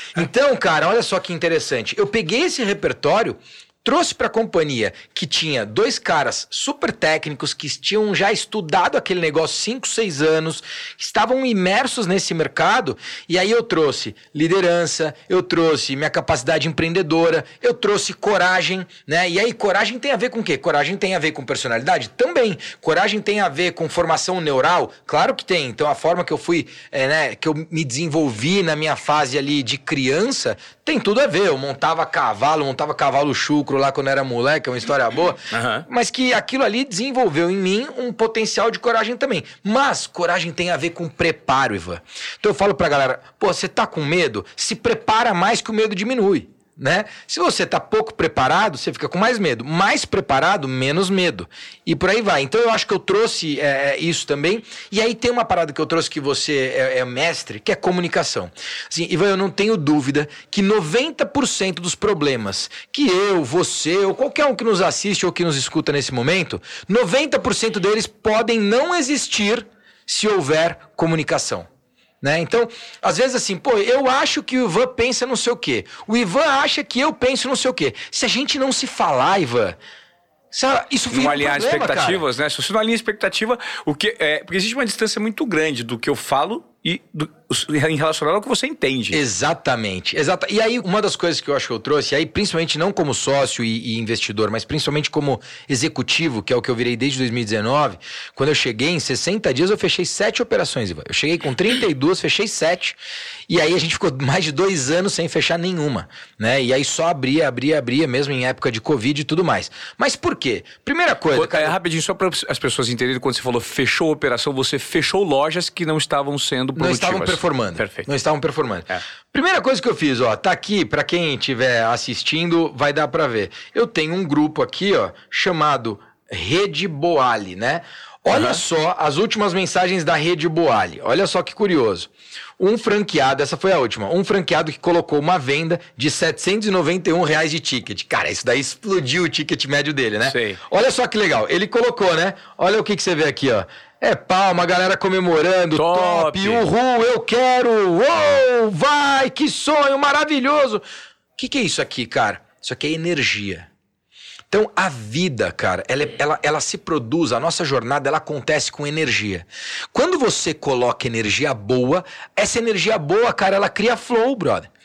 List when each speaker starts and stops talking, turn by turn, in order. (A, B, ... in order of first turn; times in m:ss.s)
0:00.1-1:11.7 A
0:35.5-0:35.8 B
1:12.2-1:19.8 A
1:20.5-1:22.2 A
1:21.1-1:29.2 B
1:29.1-1:43.0 A
1:43.5-1:51.7 A
1:51.3-1:58.1 B
1:56.7-2:30.8 A
2:08.3-2:08.6 B
2:20.3-2:20.6 B
2:25.7-2:26.6 B
2:31.4-2:33.7 A
2:34.5-2:44.7 A